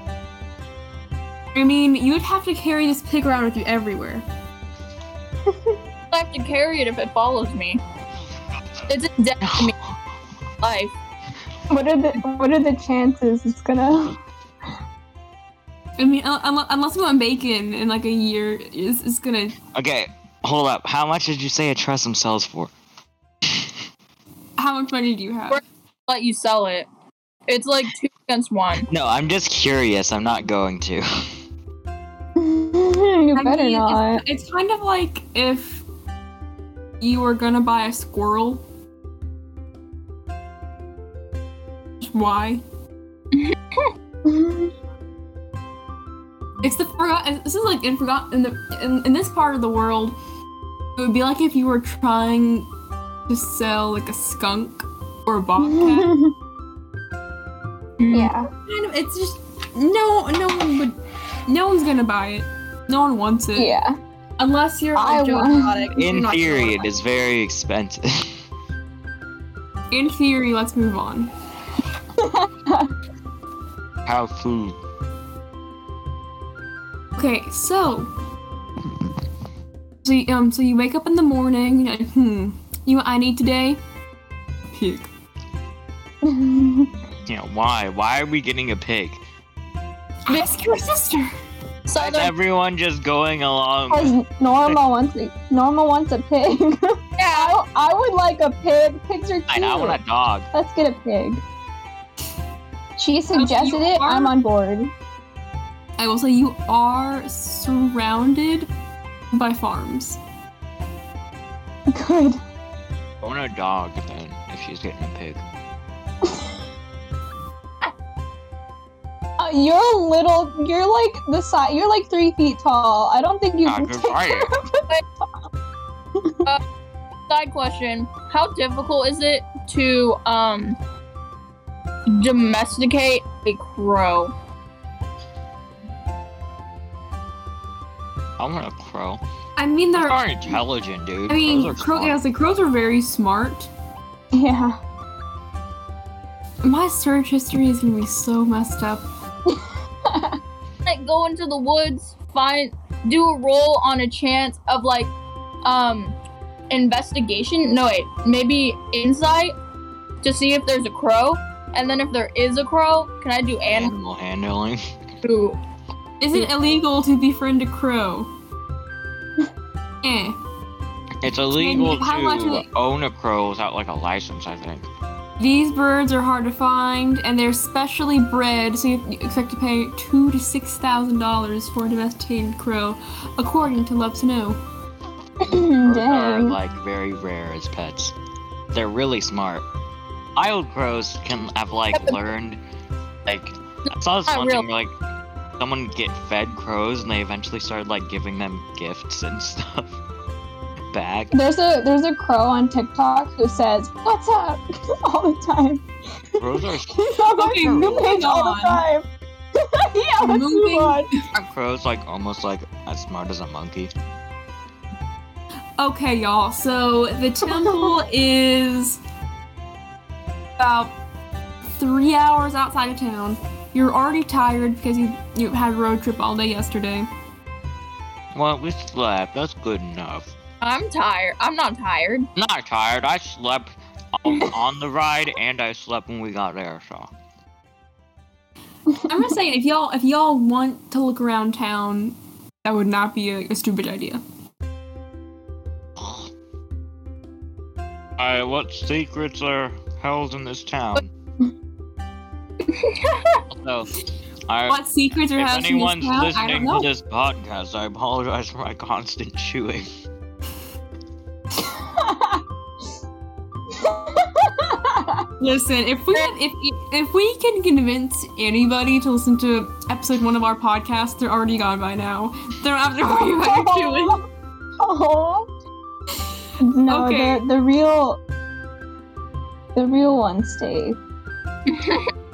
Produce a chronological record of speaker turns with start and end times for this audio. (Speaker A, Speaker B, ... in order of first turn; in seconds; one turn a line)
Speaker A: 1.5-4.2
Speaker B: 5.5-5.8
Speaker C: 6.1-7.8
Speaker C: 8.9-9.7
Speaker D: 9.4-9.8
Speaker C: 10.6-10.9
Speaker B: 11.7-14.2
Speaker A: 16.0-19.6
Speaker D: 19.7-22.7
Speaker A: 24.6-25.6
Speaker C: 25.5-26.9
Speaker C: 27.5-28.9
Speaker D: 28.9-31.1
Speaker B: 32.4-34.2
Speaker A: 33.4-35.8
Speaker A: 37.0-38.6
Speaker A: 42.0-42.6
Speaker C: 43.3-43.9
Speaker B: 44.2-44.7
Speaker A: 46.6-50.2
Speaker A: 51.0-52.7
Speaker A: 53.3-56.1
Speaker B: 55.6-56.3
Speaker C: 58.0-58.3
Speaker B: 58.1-58.5
Speaker A: 58.7-63.8
Speaker B: 63.6-63.9
Speaker A: 64.4-66.9
Speaker B: 65.0-65.9
Speaker D: 66.0-68.3
Speaker A: 69.9-71.3
Speaker B: 72.2-72.9
Speaker D: 74.1-74.8
Speaker A: 77.2-78.1
Speaker A: 80.0-83.8
Speaker A: 84.8-85.1
Speaker B: 86.2-87.0
Speaker D: 87.3-89.2
Speaker A: 90.3-91.3
Speaker C: 91.9-92.3
Speaker D: 92.0-94.1
Speaker B: 93.9-100.0
Speaker C: 97.2-97.6
Speaker D: 99.5-100.5
Speaker B: 100.5-101.4
Speaker B: 103.0-104.9
Speaker A: 103.3-104.4
Speaker A: 106.0-108.7
Speaker A: 109.3-110.2
Speaker B: 111.9-112.4
Speaker D: 113.2-115.4
Speaker B: 119.4-124.8
Speaker D: 123.7-124.5
Speaker C: 127.3-130.8
Speaker C: 132.1-134.3
Speaker D: 138.4-139.2
Speaker A: 139.6-140.6
Speaker D: 140.0-142.2
Speaker A: 141.3-143.7
Speaker B: 144.3-144.8
Speaker A: 146.6-149.0
Speaker B: 149.5-150.4
Speaker C: 150.9-155.1
Speaker C: 155.6-156.1
Speaker C: 156.7-159.5
Speaker C: 160.2-163.9
Speaker D: 163.7-165.1
Speaker C: 165.2-165.6
Speaker A: 166.2-168.3
Speaker A: 170.0-170.4
Speaker D: 171.2-174.9
Speaker A: 171.5-172.6
Speaker A: 175.4-184.6
Speaker B: 185.4-186.6
Speaker D: 185.8-188.1
Speaker D: 188.7-189.6
Speaker D: 190.4-192.6
Speaker D: 193.3-194.9
Speaker C: 194.3-194.6
Speaker D: 195.6-199.9
Speaker D: 200.9-201.3
Speaker B: 201.3-211.1
Speaker D: 206.4-208.2
Speaker A: 207.3-208.8
Speaker A: 210.2-211.2
Speaker D: 211.3-213.9
Speaker A: 215.8-219.0
Speaker B: 217.4-217.9
Speaker A: 220.6-220.9
Speaker A: 221.8-227.1
Speaker D: 228.3-230.3
Speaker C: 230.6-232.3
Speaker D: 232.4-237.1
Speaker B: 238.9-239.2
Speaker A: 239.1-244.2
Speaker D: 246.0-246.3
Speaker D: 248.2-251.1
Speaker C: 252.7-253.4
Speaker D: 253.5-253.9
Speaker D: 254.5-254.8
Speaker A: 254.7-256.9
Speaker D: 255.3-259.9
Speaker B: 261.6-262.4
Speaker B: 263.7-265.2
Speaker A: 265.4-274.2
Speaker B: 273.0-274.2
Speaker B: 274.8-275.5
Speaker B: 276.6-278.2
Speaker A: 276.9-277.4
Speaker B: 279.8-281.0
Speaker C: 281.7-282.1